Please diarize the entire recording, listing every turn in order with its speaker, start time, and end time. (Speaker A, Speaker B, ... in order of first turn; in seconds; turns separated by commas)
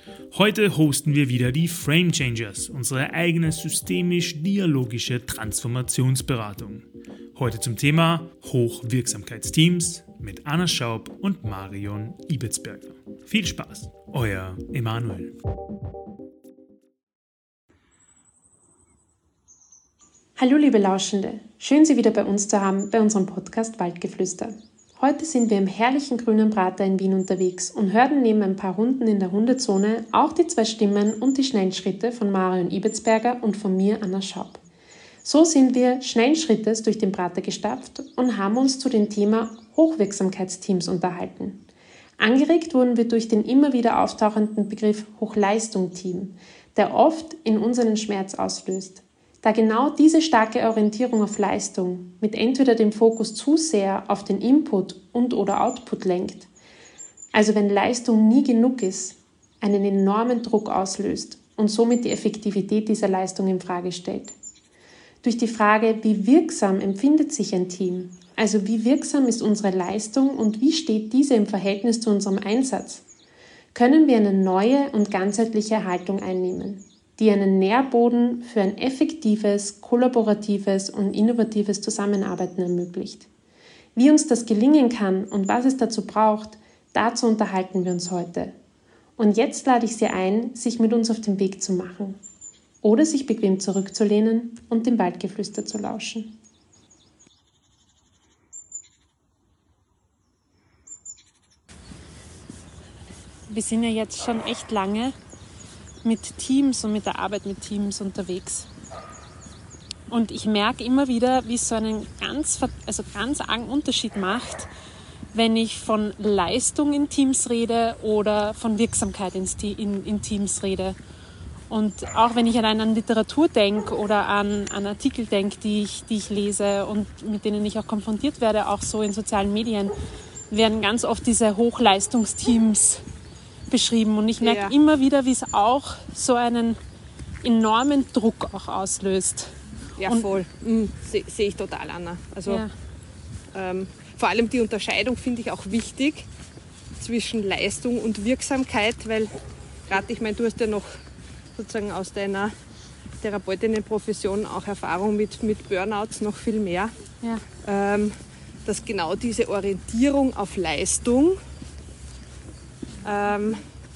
Speaker A: 0.3-15.3, Speaker B: 20.4-34.6, Speaker B: 35.2-41.6, Speaker B: 42.2-56.5, Speaker B: 57.3-64.3, Speaker B: 65.2-73.0, Speaker B: 73.7-83.3, Speaker B: 84.0-88.5, Speaker B: 89.2-92.2, Speaker B: 92.8-96.4, Speaker B: 103.5-105.1, Speaker B: 106.0-108.7, Speaker B: 110.1-114.7, Speaker B: 115.3-121.0, Speaker B: 121.7-129.9, Speaker B: 130.5-133.0, Speaker B: 133.7-136.8, Speaker C: 134.4-134.7, Speaker B: 137.4-139.6, Speaker C: 140.0-142.6, Speaker B: 140.1-140.3, Speaker B: 142.5-142.7, Speaker C: 143.5-146.3, Speaker C: 147.0-149.3, Speaker C: 149.9-150.9, Speaker C: 151.6-152.5, Speaker C: 153.2-156.9, Speaker C: 157.6-158.1, Speaker C: 158.7-161.4, Speaker C: 163.0-163.6